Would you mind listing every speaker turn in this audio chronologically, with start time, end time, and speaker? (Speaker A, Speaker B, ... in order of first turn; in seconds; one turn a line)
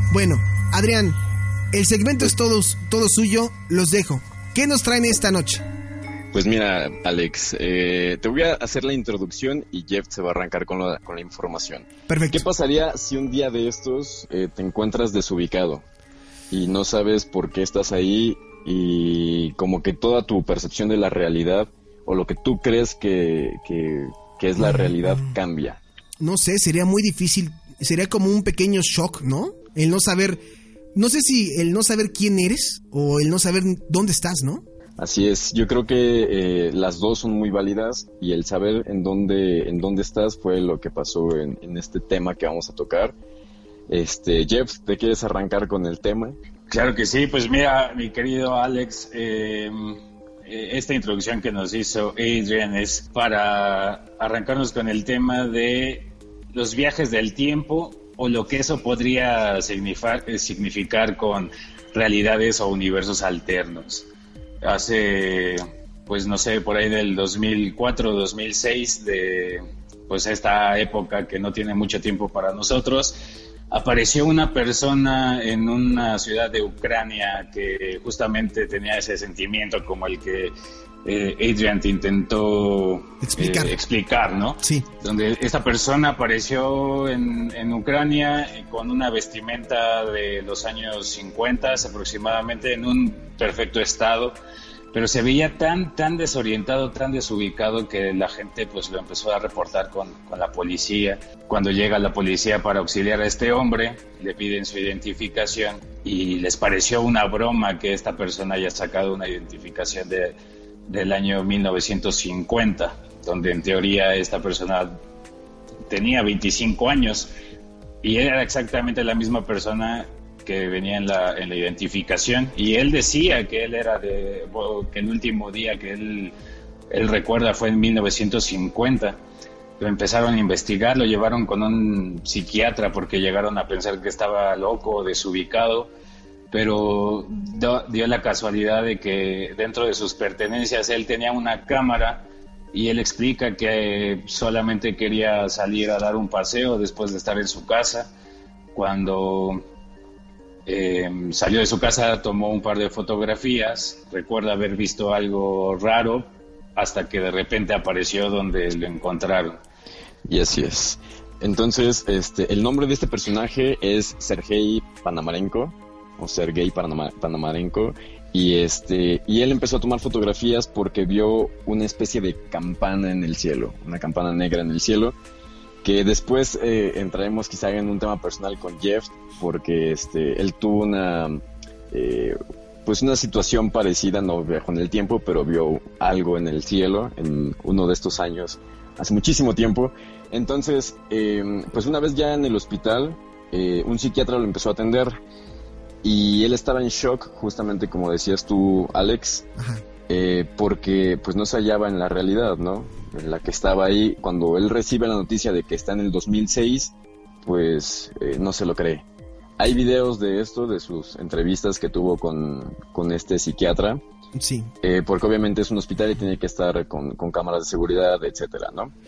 Speaker A: 0.1-1.2
Speaker A: 1.7-5.6
Speaker B: 6.3-15.8
Speaker A: 12.1-12.4
Speaker B: 16.5-25.8
Speaker A: 24.6-25.4
Speaker A: 26.2-30.4
Speaker A: 30.9-34.6
Speaker B: 35.0-43.1
Speaker B: 43.9-46.4
Speaker C: 46.7-64.1
Speaker C: 64.6-73.2
Speaker C: 73.7-80.5
Speaker C: 81.0-94.4
Speaker A: 83.2-83.8
Speaker C: 94.9-110.4
Speaker C: 110.9-115.0
Speaker C: 115.9-117.3
Speaker C: 118.0-126.3
Speaker C: 126.9-129.2
Speaker C: 129.8-135.9
Speaker C: 136.5-148.1
Speaker C: 148.7-149.6
Speaker C: 150.7-159.6
Speaker B: 160.2-175.2
Speaker B: 175.8-195.2
Speaker B: 196.0-199.5
Speaker A: 199.6-199.8
Speaker B: 200.1-206.9
Speaker B: 207.4-209.1
Speaker B: 209.6-214.0
Speaker A: 214.4-214.7
Speaker B: 214.8-218.9